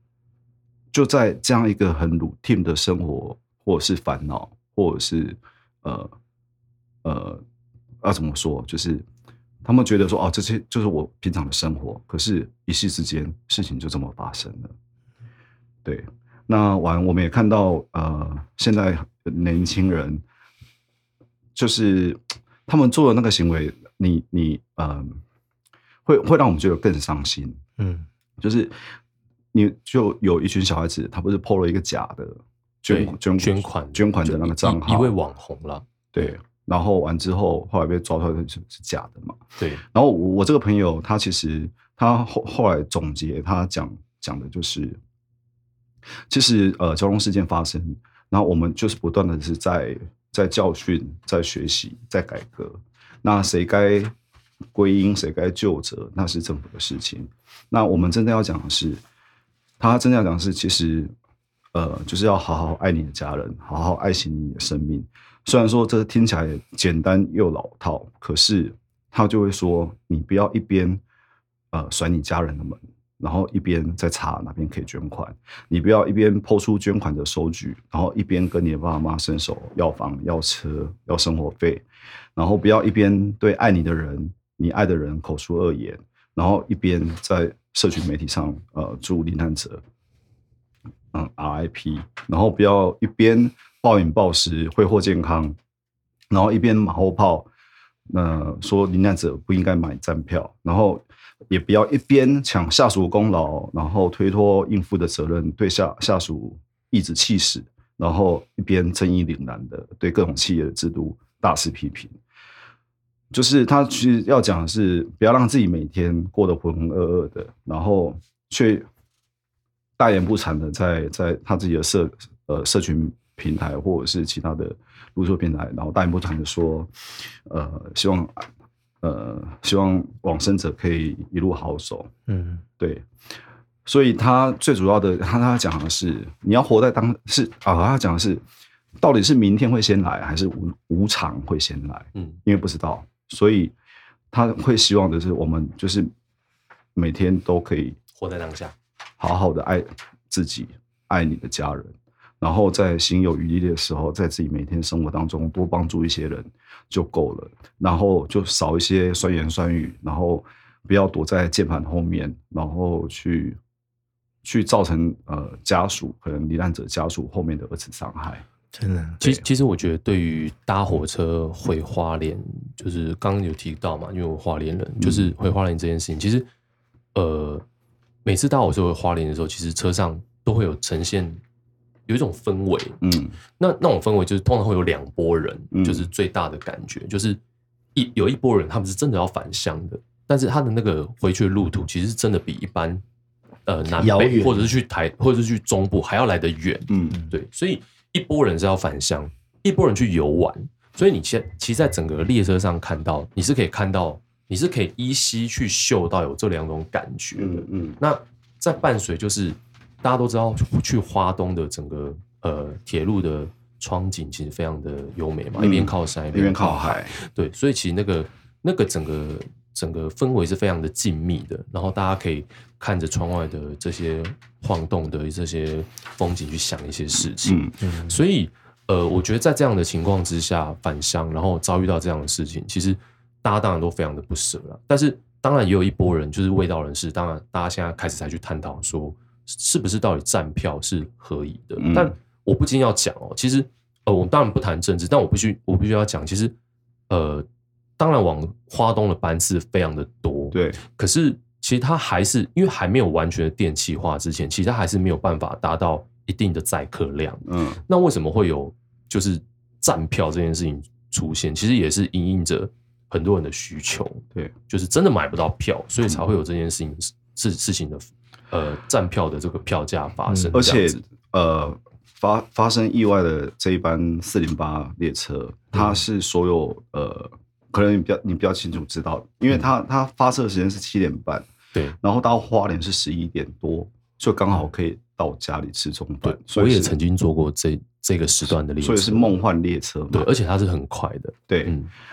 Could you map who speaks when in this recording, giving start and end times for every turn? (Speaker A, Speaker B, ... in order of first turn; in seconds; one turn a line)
Speaker A: 0.9-6.1
Speaker A: 7.0-7.4
Speaker A: 8.0-9.1
Speaker A: 9.6-14.7
Speaker A: 15.8-20.2
Speaker A: 21.6-25.2
Speaker A: 26.1-27.6
Speaker B: 27.8-28.1
Speaker A: 28.4-28.7
Speaker A: 29.5-35.1
Speaker C: 32.9-35.9
Speaker A: 36.1-39.4
Speaker C: 39.6-39.8
Speaker A: 39.9-45.0
Speaker A: 46.3-54.1
Speaker A: 54.7-59.0
Speaker A: 59.8-61.1
Speaker A: 61.7-71.0
Speaker A: 71.7-81.8
Speaker A: 82.4-89.8
Speaker A: 91.1-95.6
Speaker A: 96.3-97.5
Speaker A: 98.1-112.1
Speaker A: 113.3-118.9
Speaker A: 120.0-128.5
Speaker A: 129.0-132.1
Speaker B: 132.3-132.6
Speaker A: 132.8-133.1
Speaker A: 133.8-138.4
Speaker A: 139.0-143.7
Speaker A: 144.3-146.1
Speaker A: 146.9-148.0
Speaker C: 148.2-148.8
Speaker A: 149.2-163.6
Speaker A: 164.4-168.4
Speaker B: 168.7-169.2
Speaker C: 169.2-176.5
Speaker A: 175.0-175.3
Speaker C: 177.2-177.7
Speaker C: 178.2-181.4
Speaker C: 182.1-183.0
Speaker A: 183.0-183.4
Speaker C: 183.6-187.4
Speaker A: 185.7-186.1
Speaker C: 187.9-193.0
Speaker C: 193.7-246.5
Speaker B: 193.9-194.7
Speaker A: 196.9-197.2
Speaker A: 207.4-208.0
Speaker A: 215.6-217.2
Speaker A: 227.4-227.8
Speaker B: 227.8-228.2
Speaker A: 241.8-242.1
Speaker C: 247.1-247.5
Speaker C: 248.0-271.0
Speaker A: 250.5-250.8
Speaker A: 257.5-257.8
Speaker B: 270.3-270.5
Speaker A: 270.5-281.5
Speaker A: 282.0-286.9
Speaker C: 286.2-289.4
Speaker A: 288.8-290.3
Speaker C: 290.1-291.9
Speaker A: 291.5-291.8